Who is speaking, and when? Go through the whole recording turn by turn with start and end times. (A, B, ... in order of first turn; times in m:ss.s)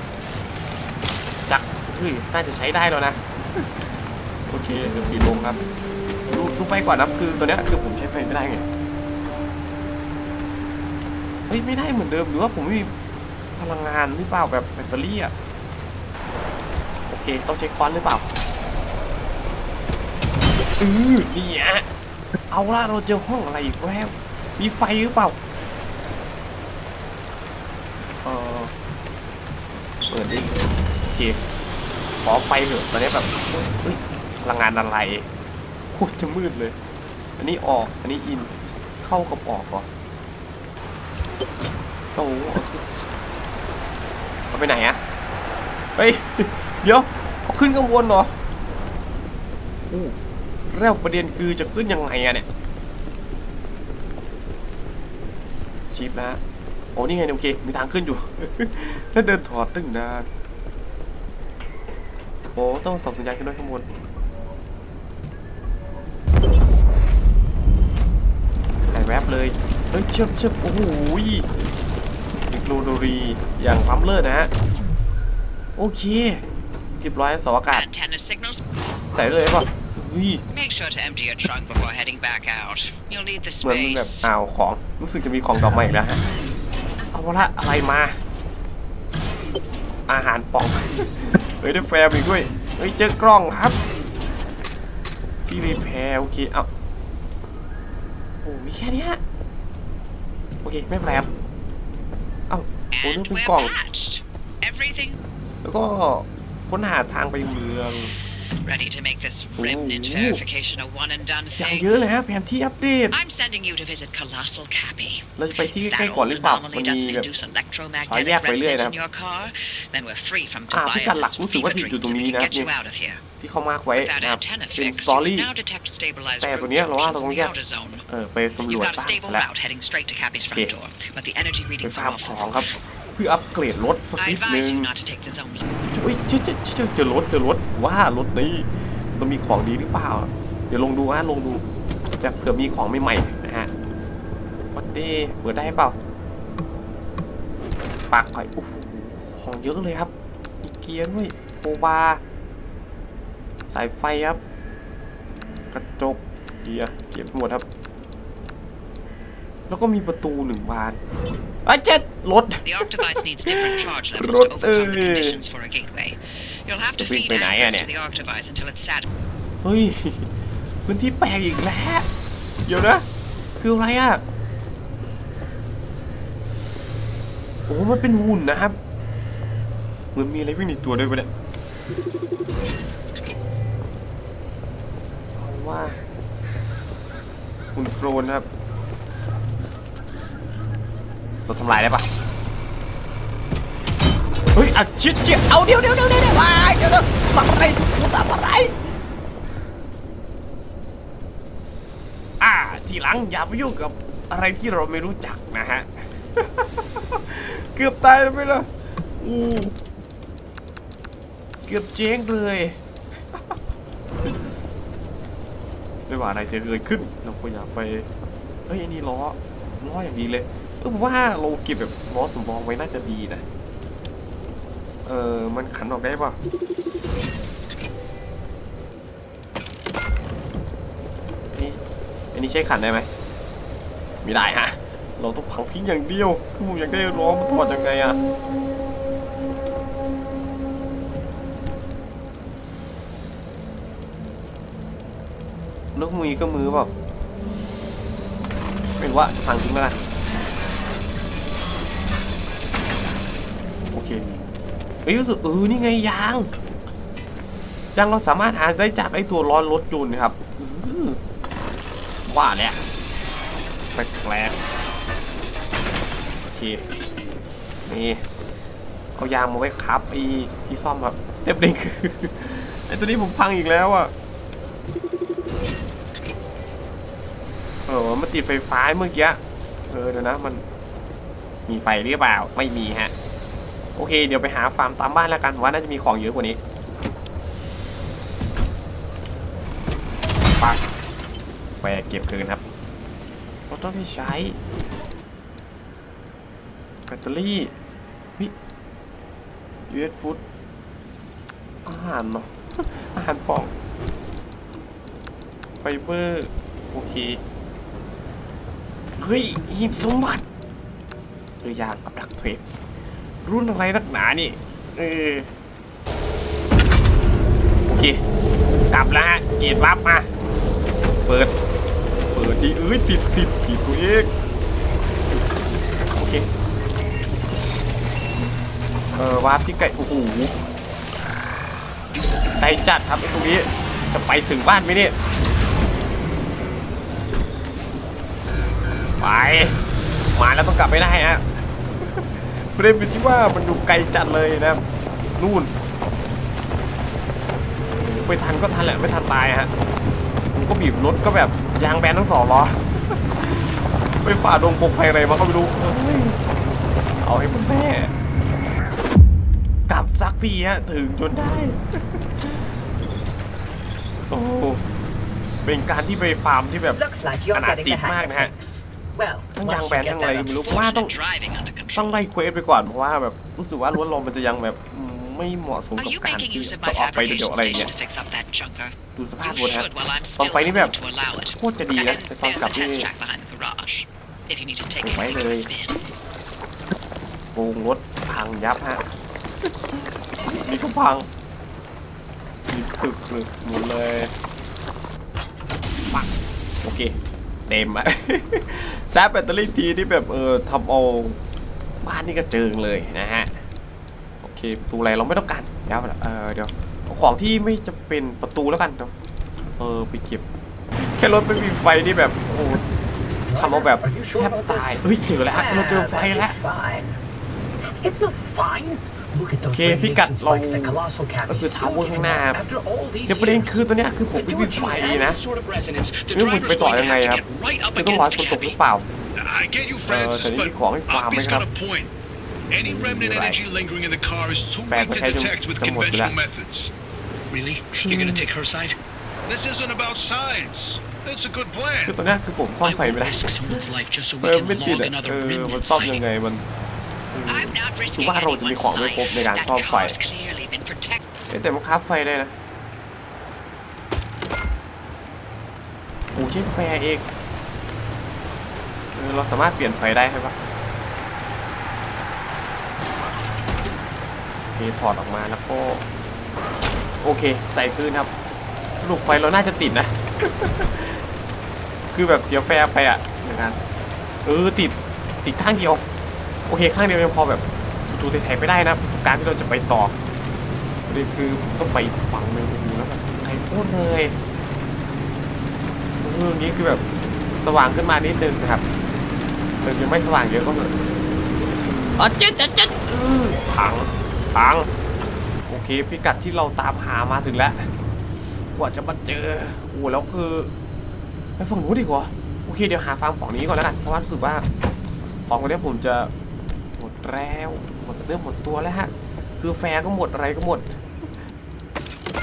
0:01.5-0:03.8 A
0:04.5-0:05.6 A
0:06.3-0:08.6 A
0:11.5-0:12.9 A
0:13.6-0:15.3 A
0:17.1-0:18.2 A
0:20.8-0:21.8 A
0:22.5-0:25.4 A
0:28.2-0:28.7 A
0:30.1-0:31.4 A
0:32.2-0:35.3 A
0:35.9-0:36.8 A
0:37.4-0:39.9 A
0:42.1-0:43.1 A
0:44.5-0:45.0 A
0:46.0-0:48.3 A
0:49.9-0:50.2 A
0:50.7-0:52.4 A
0:55.9-0:56.4 A
0:56.9-1:00.3 A
1:02.5-1:03.8 A
1:08.9-1:11.4 A
1:12.5-1:14.5 A
1:15.8-1:16.4 A
1:17.0-1:17.8 A
1:17.7-1:18.6 B
1:19.1-1:20.4 A
1:20.5-1:24.3 B
1:23.6-1:26.2 A
1:27.1-1:28.2 A
1:30.1-1:33.8 A
1:35.4-1:36.7 A
1:38.4-1:39.2 A
1:40.6-1:41.3 A
1:42.5-1:43.7 A
1:42.9-1:45.2 B
1:45.6-1:48.1 A
1:48.6-1:52.0 B
1:49.6-1:50.4 A
1:51.5-1:53.2 A
1:53.1-1:55.2 B
1:55.4-1:57.3 A
1:55.8-2:03.2 B
1:58.0-1:58.9 A
2:00.7-2:02.7 A
2:03.4-2:05.5 A
2:03.9-2:08.0 B
2:06.4-2:07.5 A
2:08.1-2:09.4 A
2:08.6-2:12.8 B
2:11.8-2:14.9 A
2:14.2-2:15.7 B
2:15.8-2:21.6 A
2:22.2-2:23.7 A
2:24.7-2:26.0 A
2:28.1-2:30.1 A
2:30.6-2:32.2 A
2:33.7-2:34.4 A
2:35.7-2:37.6 A
2:39.7-2:41.0 A
2:41.6-2:42.6 A
2:42.6-2:49.1 B
2:43.4-2:45.4 A
2:47.0-2:47.9 A
2:49.6-2:50.3 A
2:50.9-2:52.0 A
2:52.6-2:53.0 A
2:53.6-2:54.2 A
2:57.7-2:58.8 A
3:00.1-3:01.3 A
3:05.4-3:06.0 A
3:07.7-3:08.4 A
3:11.5-3:12.0 A
3:14.5-3:18.7 A
3:22.4-3:29.7 A
3:31.7-3:32.8 A
3:36.1-3:38.1 A
3:38.7-3:43.4 A
3:45.0-3:46.4 A
3:51.5-3:51.8 A
3:52.3-3:53.1 A
3:54.2-3:58.2 A
4:06.0-4:06.9 A
4:09.0-4:10.0 A
4:13.9-4:14.4 A
4:15.0-4:16.5 A
4:17.9-4:21.2 A
4:22.2-4:22.8 A
4:23.9-4:24.6 A
4:26.5-4:26.8 A
4:27.8-4:28.2 A
4:29.2-4:34.1 A
4:37.9-4:40.6 A
4:41.7-4:43.1 A
4:44.0-4:46.6 A
4:51.8-4:52.6 A
4:53.7-4:54.6 A
4:57.1-4:57.7 A
4:59.9-5:00.4 A
5:01.8-5:03.7 A
5:05.8-5:07.4 A
5:09.2-5:10.4 A
5:11.6-5:12.6 A
5:13.4-5:15.5 A
5:17.9-5:18.2 A
5:18.9-5:20.3 A
5:21.3-5:21.5 A
5:22.3-5:24.3 A
5:26.1-5:26.4 A
5:29.1-5:30.5 A
5:32.6-5:35.1 A
5:39.2-5:39.8 A
5:40.3-5:41.4 A
5:42.0-5:44.8 A
5:45.4-5:45.7 A
5:47.9-5:49.7 A
5:50.5-5:56.4 A
5:57.2-5:58.1 A
5:59.9-6:02.6 A
6:04.3-6:04.8 A
6:05.6-6:07.0 A
6:06.9-6:09.9 C
6:07.5-6:08.5 A
6:07.7-6:08.4 B
6:09.5-6:11.1 A
6:09.6-6:12.2 B
6:12.0-6:17.9 A
6:16.0-6:26.0 B
6:19.2-6:20.9 A
6:21.6-6:23.1 A
6:25.0-6:25.7 A
6:27.5-6:29.0 A
6:29.6-6:30.1 A
6:30.6-6:31.3 A
6:32.7-6:34.3 A
6:36.8-6:37.1 A
6:37.7-6:41.4 A
6:42.0-6:43.6 A
6:44.4-6:49.1 A
6:49.8-6:50.4 A
6:51.0-6:52.8 A
6:53.4-6:57.2 C
6:53.5-6:56.6 A
6:57.8-7:03.8 C
6:59.7-7:02.6 A
7:03.3-7:05.4 A
7:04.3-7:04.6 D
7:04.7-7:05.4 C
7:05.4-7:08.8 D
7:06.3-7:07.4 A
7:07.9-7:09.0 A
7:09.3-7:12.1 E
7:10.0-7:11.6 A
7:12.7-7:16.9 E
7:12.8-7:13.6 A
7:14.9-7:16.4 A
7:17.5-7:18.9 D
7:17.9-7:18.6 E
7:18.0-7:18.4 A
7:19.4-7:22.2 E
7:22.0-7:23.8 A
7:22.8-7:26.0 D
7:24.4-7:26.6 A
7:25.9-7:26.2 B
7:27.3-7:30.2 A
7:27.5-7:31.2 B
7:31.5-7:32.5 A
7:36.3-7:37.3 A
7:39.1-7:40.6 A
7:44.7-7:46.0 A
7:47.2-7:48.3 A
7:49.0-7:51.2 A
7:52.1-7:53.8 A
7:54.4-7:56.0 A
7:56.7-8:00.1 A
8:01.1-8:04.3 A
8:06.2-8:08.8 A
8:09.8-8:10.9 A
8:12.2-8:14.9 A
8:15.7-8:17.9 A
8:18.7-8:20.7 A
8:21.6-8:24.6 A
8:25.5-8:26.3 A
8:27.0-8:30.9 A